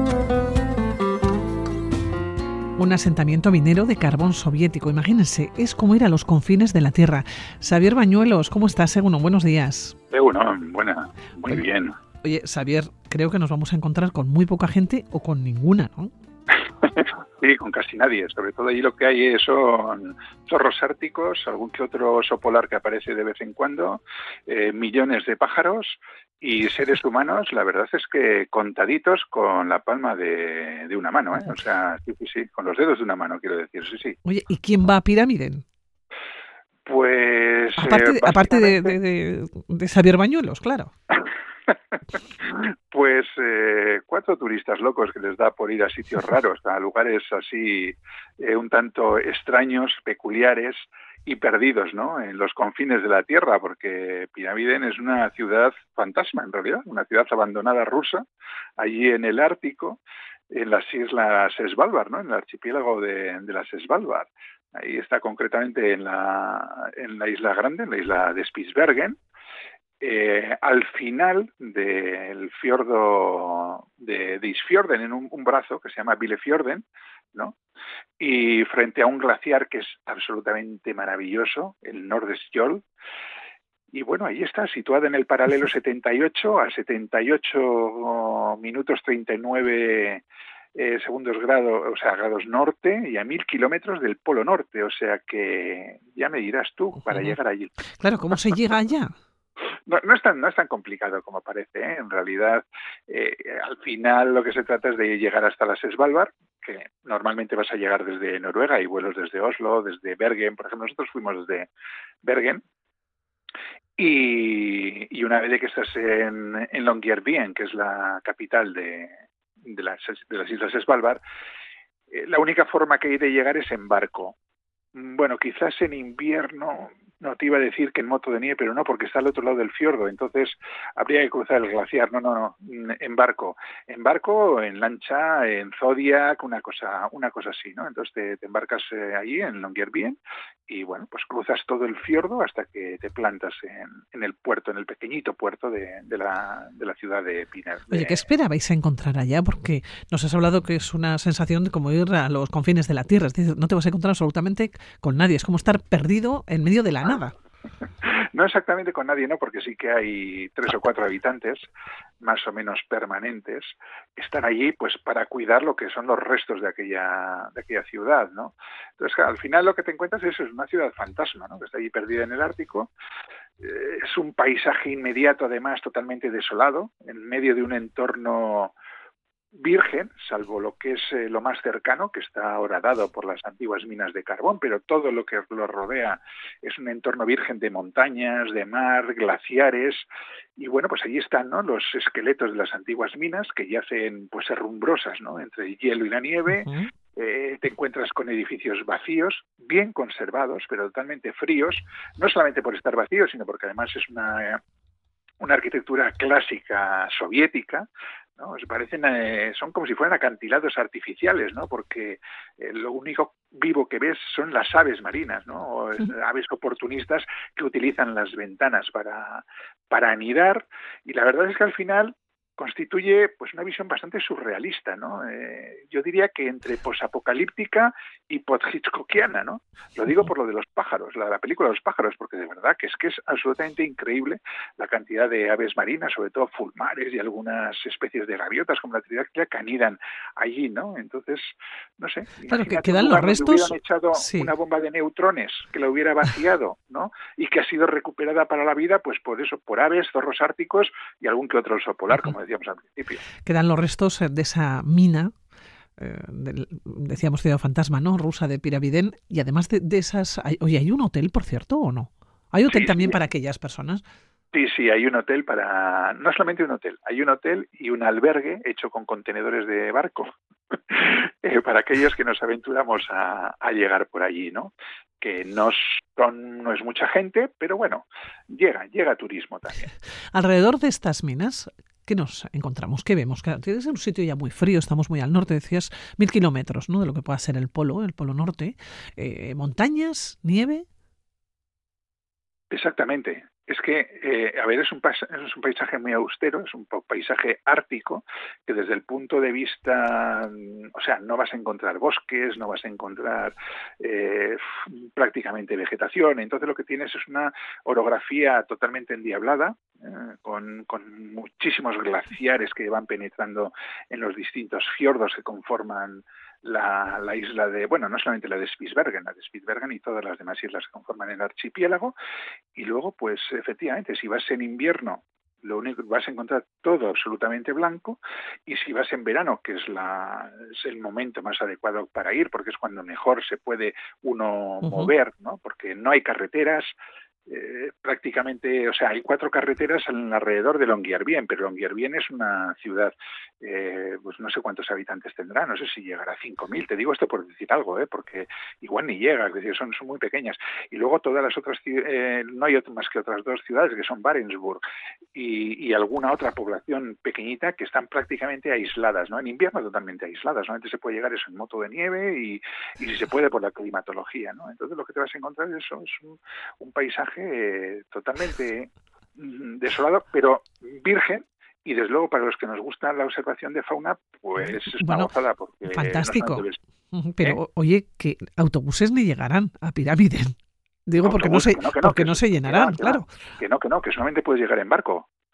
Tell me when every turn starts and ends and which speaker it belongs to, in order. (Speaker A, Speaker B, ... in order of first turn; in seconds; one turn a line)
Speaker A: 2.8-9.9
Speaker B: 10.1-12.0
Speaker A: 12.2-16.1
Speaker B: 16.5-34.2
Speaker A: 34.2-35.6
Speaker B: 36.9-39.0
Speaker A: 37.8-40.9
Speaker B: 42.4-58.2
Speaker B: 58.8-60.0
Speaker B: 60.5-69.2
Speaker B: 70.0-77.6
Speaker B: 78.2-82.8
Speaker B: 83.9-90.2
Speaker B: 90.8-97.8
Speaker A: 97.1-97.3
Speaker A: 98.0-99.1
Speaker B: 99.9-111.7
Speaker B: 112.2-112.6
Speaker B: 114.0-121.2
Speaker B: 122.1-124.4
Speaker B: 125.0-148.2
Speaker A: 147.9-157.3
Speaker B: 158.0-161.7
Speaker B: 162.2-172.9
Speaker B: 173.6-178.7
Speaker B: 179.5-204.6
Speaker A: 196.5-196.9
Speaker B: 205.4-253.3
Speaker A: 242.5-244.5
Speaker A: 253.4-255.3
Speaker A: 256.0-264.0
Speaker B: 262.7-263.2
Speaker B: 264.5-270.3
Speaker B: 270.9-279.9
Speaker A: 280.3-290.9
Speaker B: 292.7-322.1
Speaker B: 322.8-336.9
Speaker A: 334.8-335.1
Speaker B: 337.5-354.8
Speaker B: 355.4-376.8
Speaker A: 374.9-375.3
Speaker A: 375.9-383.3
Speaker B: 381.2-385.3